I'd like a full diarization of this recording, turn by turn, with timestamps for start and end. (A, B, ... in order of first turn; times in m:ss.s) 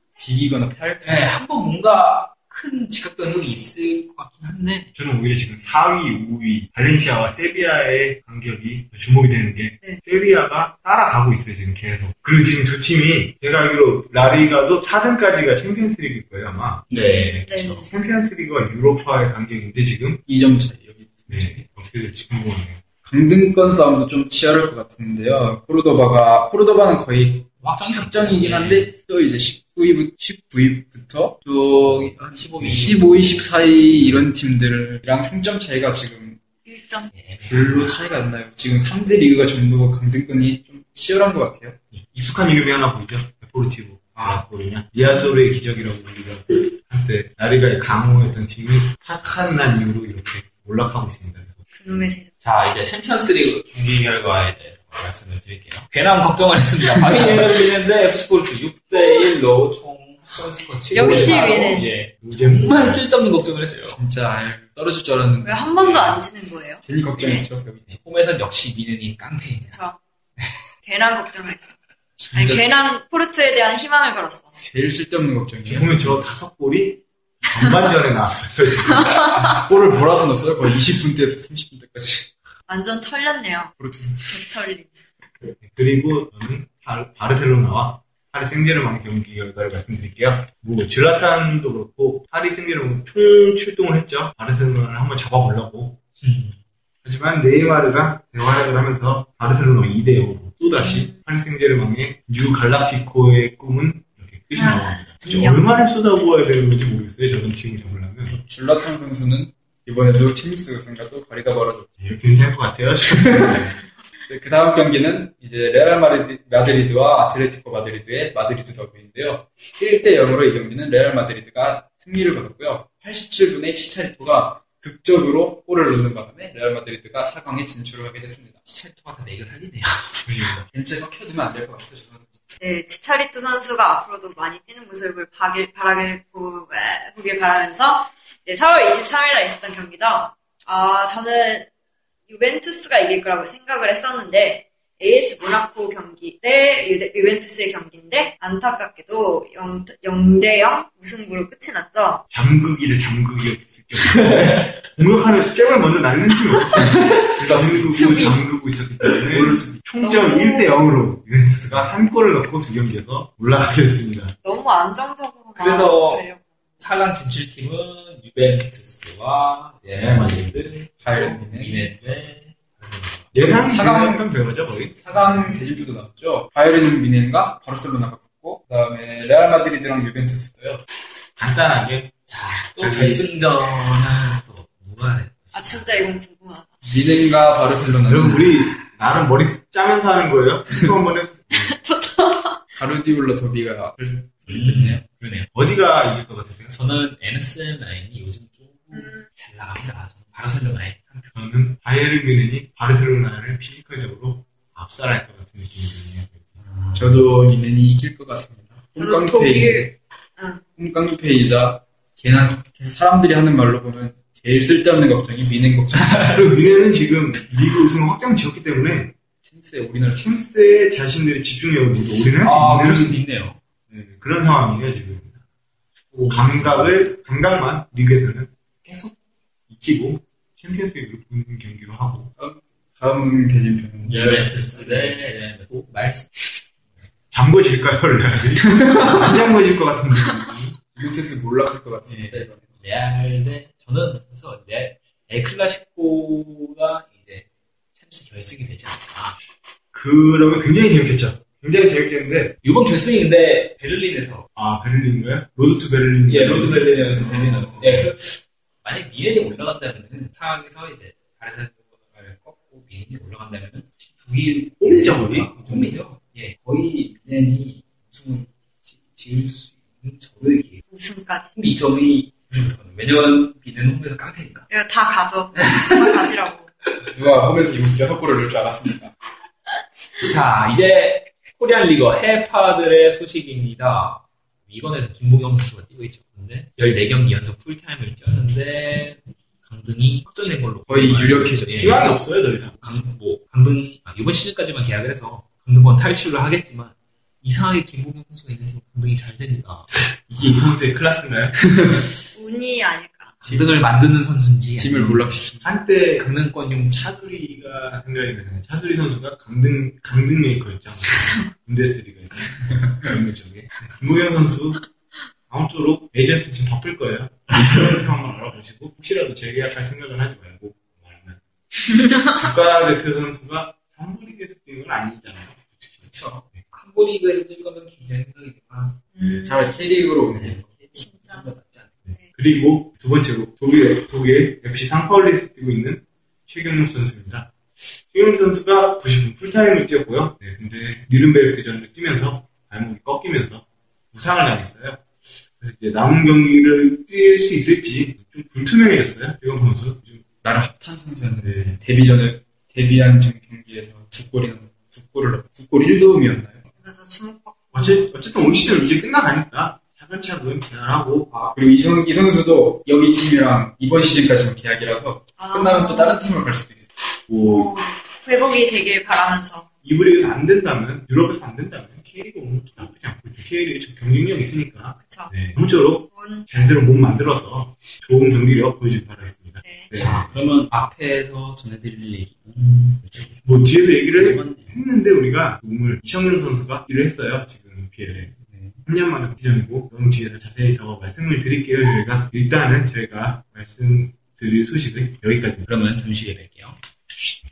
0:00.2-0:01.3 A
0:01.0-0:04.9 B
0:04.9-0:17.0 C
0:16.9-0:17.9 B
0:17.0-0:17.9 D
0:17.8-0:20.2 C
0:20.3-0:21.6 A
0:21.3-0:22.8 C
0:23.0-0:36.4 A
0:27.6-0:28.9 B
0:31.8-0:33.4 B
0:36.6-0:37.1 D
0:37.1-0:38.0 B
0:37.5-0:41.8 A
0:41.9-0:51.6 C
0:44.2-0:44.4 B
0:45.1-0:45.4 D
0:51.7-0:52.3 D
0:52.4-1:04.0 B
1:00.9-1:01.9 D
1:00.9-1:01.6 C
1:02.2-1:03.0 C
1:03.8-1:06.2 A
1:05.4-1:07.5 D
1:06.8-1:08.0 A
1:07.9-1:09.8 B
1:09.7-1:10.0 D
1:10.8-1:11.7 D
1:12.2-1:12.6 A
1:12.3-1:14.6 D
1:14.6-1:16.2 A
1:15.6-1:15.9 B
1:15.7-1:19.2 C
1:18.9-1:19.4 D
1:19.3-1:22.3 A
1:22.7-1:23.7 D
1:23.8-1:24.3 A
1:24.2-1:24.9 D
1:25.6-1:36.0 C
1:36.2-1:36.6 B
1:37.0-1:48.4 C
1:40.6-1:41.2 D
1:44.5-1:45.7 D
1:48.3-1:51.9 A
1:52.0-1:53.7 C
1:53.1-1:53.6 A
1:54.3-2:08.6 A
2:08.7-2:10.6 B
2:10.2-2:10.6 C
2:10.7-2:12.3 A
2:12.6-2:21.7 D
2:22.3-2:32.2 D
2:32.3-2:44.3 C
2:34.1-2:34.7 B
2:36.6-2:37.2 B
2:37.3-2:38.4 A
2:37.9-2:38.5 D
2:39.3-2:39.8 A
2:40.0-2:40.9 D
2:44.4-2:46.8 D
2:45.6-2:46.2 B
2:46.8-2:53.3 B
2:49.9-2:50.5 C
2:51.0-2:51.9 A
2:53.3-2:54.9 C
2:53.4-3:00.8 A
2:55.1-2:55.8 B
3:01.4-3:02.1 C
3:02.3-3:06.2 B
3:02.8-3:03.2 C
3:05.5-3:06.8 D
3:06.8-3:08.6 A
3:08.1-3:11.7 C
3:11.5-3:12.8 D
3:12.8-3:15.0 A
3:14.5-3:15.5 B
3:15.5-3:16.7 C
3:16.7-3:21.3 B
3:18.9-3:19.3 D
3:21.3-3:26.5 C
3:26.6-3:27.2 B
3:26.9-3:29.9 A
3:29.0-3:30.6 D
3:30.8-3:36.5 A
3:36.1-3:39.1 C
3:39.4-3:40.5 A
3:40.2-3:43.2 C
3:42.4-3:43.6 B
3:43.9-3:45.4 C
3:46.1-3:46.9 B
3:46.3-3:49.2 C
3:49.7-3:52.3 C
3:52.4-3:55.4 A
3:54.0-3:56.4 B
3:57.3-4:00.8 C
3:58.7-3:59.1 A
4:00.9-4:02.6 A
4:02.0-4:09.4 B
4:09.9-4:12.5 C
4:12.6-4:14.5 B
4:14.6-4:17.7 C
4:16.2-4:30.8 B
4:17.5-4:18.1 A
4:24.8-4:25.9 C
4:30.9-4:31.5 D
4:31.5-4:34.7 B
4:34.7-4:36.7 D
4:35.6-4:36.3 B
4:37.0-4:39.1 A
4:40.2-4:52.1 B
4:50.9-4:52.2 A
4:51.8-4:53.0 C
4:52.8-4:59.9 B
5:00.3-5:01.6 C
5:01.7-5:02.1 A
5:02.3-5:03.4 D
5:03.4-5:05.5 B
5:03.5-5:03.8 A
5:04.8-5:05.7 A
5:05.6-5:06.3 C
5:06.2-5:07.1 B
5:06.9-5:14.8 C
5:15.5-5:21.4 C
5:21.9-5:22.5 D
5:22.3-5:26.6 C
5:26.1-5:29.0 B
5:29.1-5:29.8 D
5:29.4-5:30.7 A
5:30.3-5:31.9 B
5:30.9-5:31.4 D
5:32.0-5:37.5 C
5:38.1-5:50.2 C
5:50.4-5:56.6 A
5:51.4-5:51.8 C
5:56.7-5:58.9 D
5:57.7-6:01.3 C
6:01.3-6:06.9 A
6:05.4-6:06.4 D
6:07.3-6:07.7 C
6:07.4-6:09.6 D
6:09.8-6:20.3 C
6:14.9-6:15.3 D
6:16.1-6:16.5 D
6:19.6-6:20.0 D
6:19.9-6:24.8 B
6:23.4-6:28.3 C
6:28.3-6:28.8 B
6:28.8-6:35.7 C
6:35.7-6:36.8 B